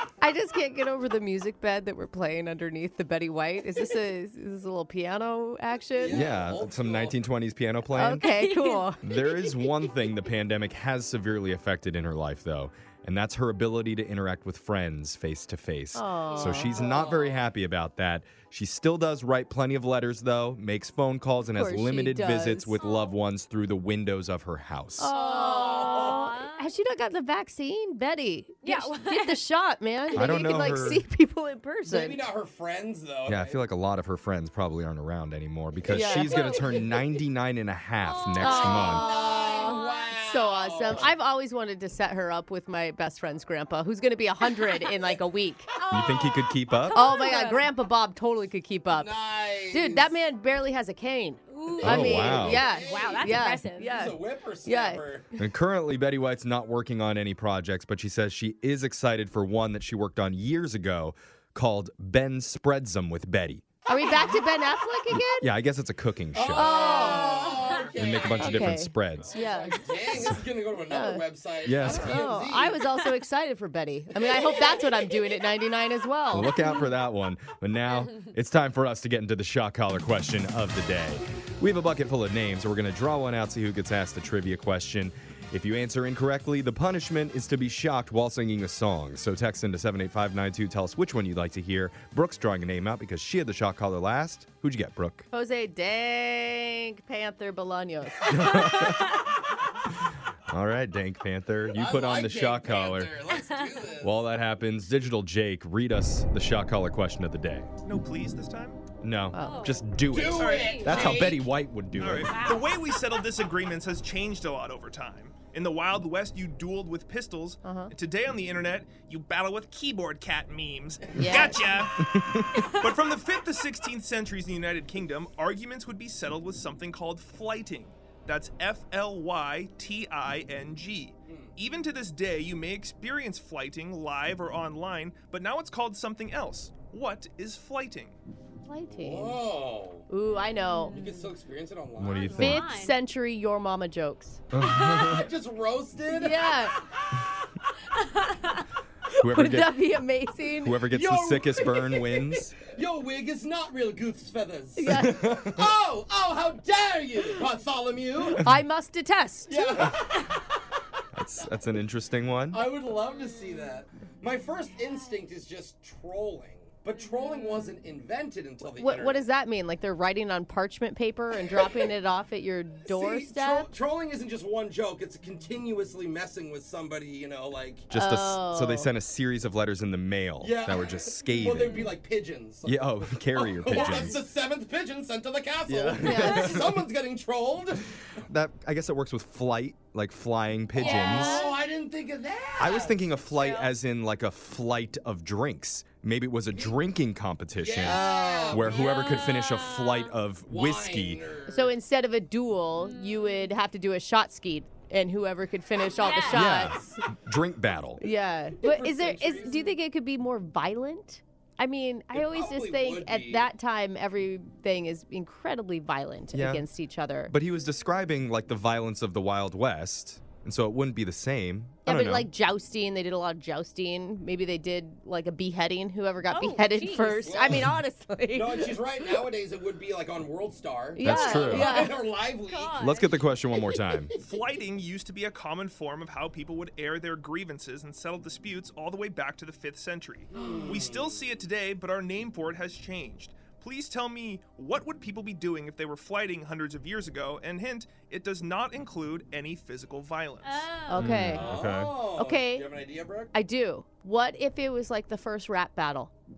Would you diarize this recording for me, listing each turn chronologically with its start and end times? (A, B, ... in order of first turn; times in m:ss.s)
0:00.2-0:06.2 A
0:05.9-0:07.2 B
0:06.1-0:08.3 C
0:07.9-0:09.0 A
0:08.2-0:09.7 D
0:09.0-0:25.1 C
0:15.9-0:16.8 A
0:16.3-0:16.6 D
0:16.6-0:17.4 B
0:21.5-0:22.8 A
0:22.8-0:23.2 D
0:25.0-0:32.2 A
0:25.1-0:26.7 D
0:25.4-0:26.3 B
0:28.6-0:29.4 D
0:30.1-0:30.4 D
0:30.1-0:31.0 C
0:31.8-0:33.6 B
0:33.2-0:39.1 C
0:35.8-0:36.5 A
0:36.2-0:37.0 B
0:38.2-0:38.9 D
0:38.3-0:45.8 A
0:38.4-0:41.1 B
0:39.5-0:40.1 D
0:45.8-0:47.7 D
0:45.9-0:47.1 C
0:46.9-0:49.2 A
0:48.9-0:50.2 B
0:49.7-0:55.0 A
0:51.5-0:54.0 D
0:51.7-0:55.3 B
0:51.8-0:52.6 C
0:55.4-1:03.7 C
1:03.8-1:05.5 A
1:05.1-1:06.9 C
1:06.3-1:12.8 B
1:06.5-1:07.6 A
1:06.9-1:07.9 D
1:07.9-1:09.4 C
1:08.3-1:10.4 A
1:10.9-1:11.2 A
1:11.6-1:12.1 C
1:11.8-1:16.6 A
1:14.2-1:15.3 B
1:16.3-1:35.3 C
1:35.3-1:38.6 A
1:38.3-1:39.2 C
1:40.5-1:43.1 C
1:41.7-1:44.2 B
1:43.4-1:43.7 D
1:44.0-1:47.7 C
1:47.8-1:48.8 E
1:49.0-1:52.3 C
1:49.3-1:49.8 A
1:49.4-1:50.0 D
1:50.0-1:51.5 B
1:50.3-1:50.8 E
1:50.6-1:51.1 D
1:52.0-2:18.2 E
1:52.3-1:52.7 D
1:57.6-1:57.9 A
2:01.1-2:01.6 A
2:01.2-2:01.6 B
2:02.0-2:02.6 C
2:18.6-2:19.4 A
2:18.9-2:20.1 B
2:20.1-2:21.0 A
2:20.5-2:21.3 D
2:20.9-2:22.3 B
2:22.0-2:22.6 C
2:22.1-2:23.0 D
2:22.4-2:24.4 A
2:24.5-2:25.3 C
2:24.6-2:25.2 D
2:25.0-2:26.6 B
2:26.1-2:26.8 A
2:27.9-2:28.6 D
2:29.2-2:29.9 C
2:29.2-2:30.9 A
2:30.6-2:32.7 C
2:30.9-2:38.4 B
2:34.8-2:35.5 A
2:34.9-2:35.7 C
2:38.4-2:39.9 A
2:39.5-2:40.5 B
2:41.1-2:42.6 C
2:42.5-2:49.3 B
2:48.7-2:53.7 A
2:51.5-2:51.9 B
2:52.8-2:57.9 B
2:57.9-3:01.8 C
2:57.9-2:58.9 A
3:00.4-3:08.2 B
3:01.5-3:01.9 D
3:02.6-3:04.2 C
3:03.8-3:04.1 D
3:05.7-3:06.7 C
3:06.0-3:06.6 A
3:08.3-3:11.4 C
3:10.7-3:13.0 B
3:10.8-3:11.6 D
3:12.6-3:21.2 C
3:13.2-3:13.7 D
3:17.6-3:19.3 B
3:17.8-3:18.3 A
3:18.2-3:20.2 D
3:20.4-3:21.7 B
3:21.5-3:27.0 A
3:22.8-3:23.5 D
3:26.0-3:26.6 D
3:26.3-3:28.0 C
3:26.6-3:26.9 B
3:28.0-3:37.3 A
3:28.5-3:29.8 B
3:32.1-3:33.5 B
3:36.3-3:36.7 C
3:37.3-3:42.3 C
3:41.8-3:49.2 A
3:46.3-3:47.4 D
3:47.2-3:47.7 B
3:48.3-3:52.9 B
3:51.0-3:52.0 A
3:51.0-3:51.8 C
3:52.4-3:53.2 D
3:52.8-3:54.1 C
3:54.2-4:10.7 E
4:00.3-4:01.2 B
4:10.4-4:11.1 D
4:10.9-4:11.5 A
4:11.0-4:11.9 C
4:11.2-4:13.3 B
4:12.1-4:12.7 A
4:13.3-4:16.1 A